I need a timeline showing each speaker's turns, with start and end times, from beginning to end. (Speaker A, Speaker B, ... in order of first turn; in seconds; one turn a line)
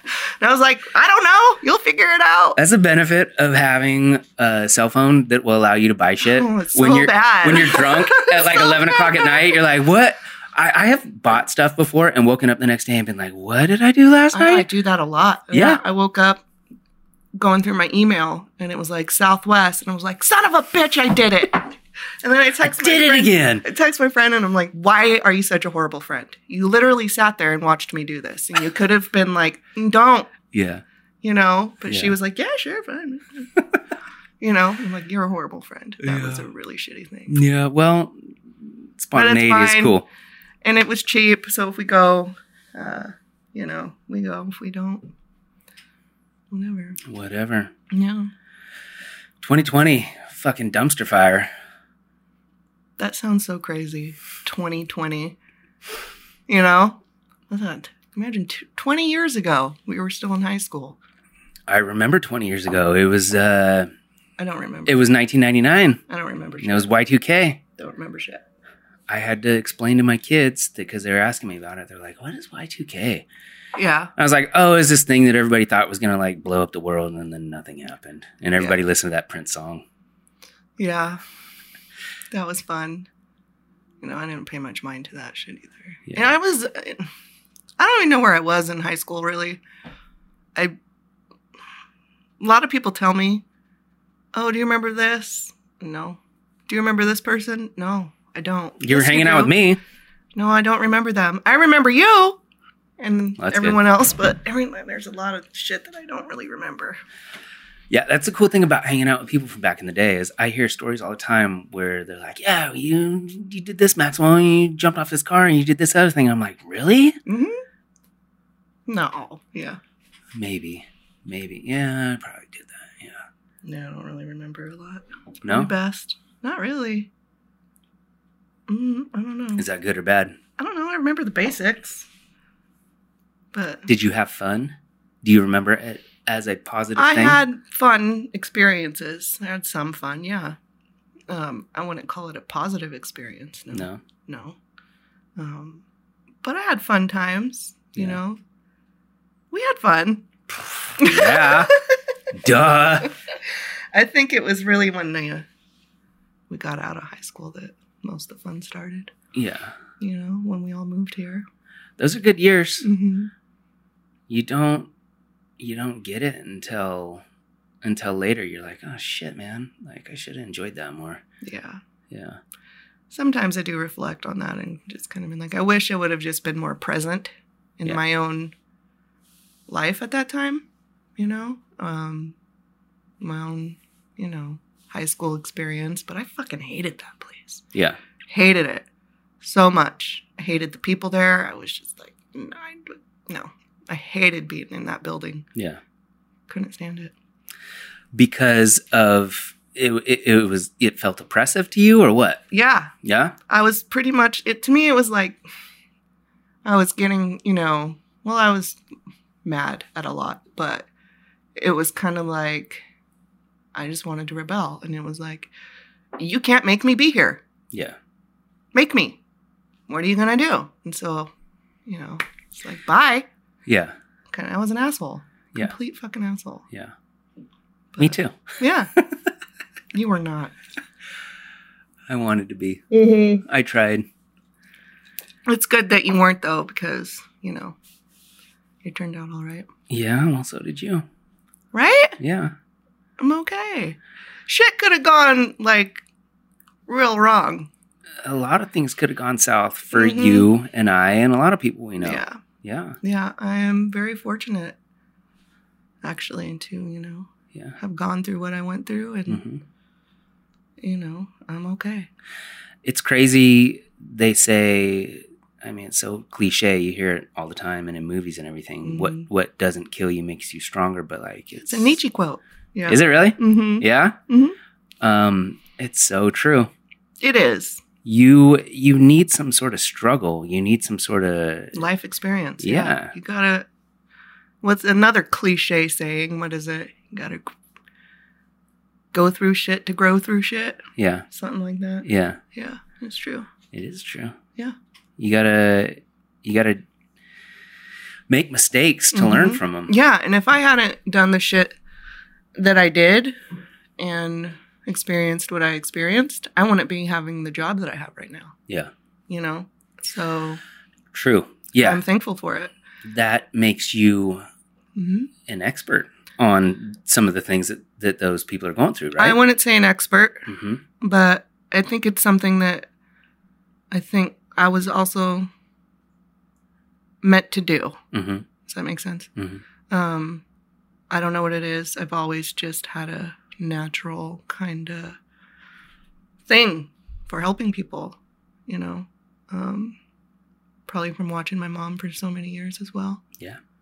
Speaker A: 0.4-2.6
Speaker B: 2.6-14.7
Speaker A: 6.3-9.4
Speaker A: 14.3-16.4
Speaker B: 15.5-15.8
Speaker A: 17.4-30.3
Speaker B: 22.6-23.6
Speaker B: 30.5-30.8
Speaker A: 31.2-33.5
Speaker B: 31.9-32.1
Speaker A: 34.4-37.4
Speaker B: 36.0-36.5
Speaker B: 37.3-40.1
Speaker A: 39.1-40.0
Speaker A: 40.6-45.0
Speaker A: 46.5-47.0
Speaker B: 47.0-47.7
Speaker A: 47.9-48.3
Speaker B: 49.4-51.5
Speaker A: 53.0-55.4
Speaker A: 56.5-61.0
Speaker B: 61.7-63.9
Speaker A: 64.4-65.0
Speaker B: 64.9-66.0
Speaker A: 66.1-66.9
Speaker B: 66.6-67.6
Speaker A: 67.8-68.4
Speaker B: 69.1-73.3
Speaker A: 73.8-74.1
Speaker B: 74.2-79.8
Speaker A: 80.8-81.2
Speaker A: 82.3-83.1
Speaker A: 84.0-87.1
Speaker A: 87.8-89.6
Speaker A: 92.4-93.4
Speaker A: 94.3-99.5
Speaker B: 98.8-99.8
Speaker A: 100.4-102.4
Speaker A: 103.0-107.0
Speaker B: 103.4-103.8
Speaker B: 107.9-117.2
Speaker A: 117.3-117.6
Speaker A: 118.9-119.8
Speaker B: 120.3-123.2
Speaker A: 123.6-127.1
Speaker B: 125.4-125.7
Speaker A: 128.7-129.7
Speaker B: 129.6-130.4
Speaker A: 130.6-132.1
Speaker A: 133.5-133.9
Speaker B: 133.9-137.4
Speaker A: 137.0-140.6
Speaker A: 141.3-144.6
Speaker B: 143.7-144.0
Speaker A: 145.4-145.8
Speaker A: 146.4-148.4
Speaker A: 149.5-150.3
Speaker B: 151.0-151.7
Speaker A: 151.0-152.0
Speaker B: 152.3-153.1
Speaker A: 153.9-155.5
Speaker A: 156.5-159.1
Speaker B: 159.3-159.7
Speaker A: 160.0-161.4
Speaker B: 162.0-162.9
Speaker A: 162.8-163.3
Speaker B: 164.3-164.9
Speaker B: 165.6-167.2
Speaker B: 167.8-171.2
Speaker A: 171.4-171.8
Speaker B: 172.1-172.4
Speaker A: 173.1-178.5
Speaker A: 179.7-180.7
Speaker A: 181.2-182.3
Speaker A: 183.2-187.7
Speaker A: 188.3-188.9
Speaker A: 189.4-195.5
Speaker B: 195.6-195.8
Speaker A: 196.5-197.1
Speaker B: 198.1-202.4
Speaker A: 202.5-202.9
Speaker B: 203.0-203.4
Speaker A: 203.5-205.4
Speaker A: 206.7-208.8
Speaker A: 209.4-210.9
Speaker A: 211.6-212.8
Speaker A: 213.8-215.5
Speaker A: 216.2-217.4
Speaker B: 217.7-218.0
Speaker A: 218.7-219.2
Speaker A: 219.9-221.3
Speaker A: 221.9-223.3
Speaker B: 223.7-223.9
Speaker A: 224.3-226.7
Speaker A: 227.9-228.9
Speaker B: 228.0-228.4
Speaker A: 229.9-230.5
Speaker B: 232.1-232.8
Speaker A: 232.9-233.4
Speaker B: 233.4-234.1
Speaker A: 235.5-237.8
Speaker A: 238.8-239.7
Speaker B: 239.9-241.1
Speaker A: 241.7-242.2
Speaker B: 242.2-242.5
Speaker A: 243.2-246.1
Speaker A: 246.9-247.7
Speaker B: 248.2-253.0
Speaker A: 249.9-250.5
Speaker A: 252.0-252.4
Speaker A: 253.0-254.8
Speaker A: 256.0-259.4
Speaker B: 259.3-259.6
Speaker A: 260.8-262.1
Speaker B: 262.8-272.0
Speaker A: 268.9-269.2
Speaker A: 271.6-274.6
Speaker B: 272.9-274.2
Speaker B: 275.0-276.7
Speaker A: 277.2-277.8
Speaker B: 278.1-281.8
Speaker A: 281.7-283.7
Speaker B: 282.6-283.1
Speaker A: 284.6-287.5
Speaker A: 289.1-293.5
Speaker B: 291.0-291.3
Speaker B: 292.0-292.4
Speaker B: 293.7-294.4
Speaker B: 295.2-296.8
Speaker B: 298.3-299.9
Speaker A: 299.1-301.8
Speaker A: 302.6-303.4
Speaker A: 304.0-308.6
Speaker A: 309.3-310.6
Speaker B: 311.1-312.0
Speaker A: 311.8-312.7
Speaker B: 313.0-314.4
Speaker A: 314.9-315.3
Speaker B: 315.5-319.4
Speaker A: 319.2-320.5
Speaker B: 320.5-320.8
Speaker A: 321.0-322.9
Speaker A: 323.9-325.5
Speaker A: 327.2-328.0
Speaker B: 328.1-328.5
Speaker A: 328.6-329.3
Speaker B: 329.4-329.6
Speaker A: 329.9-330.4
Speaker A: 331.1-335.2
Speaker A: 336.5-340.0
Speaker A: 340.9-343.2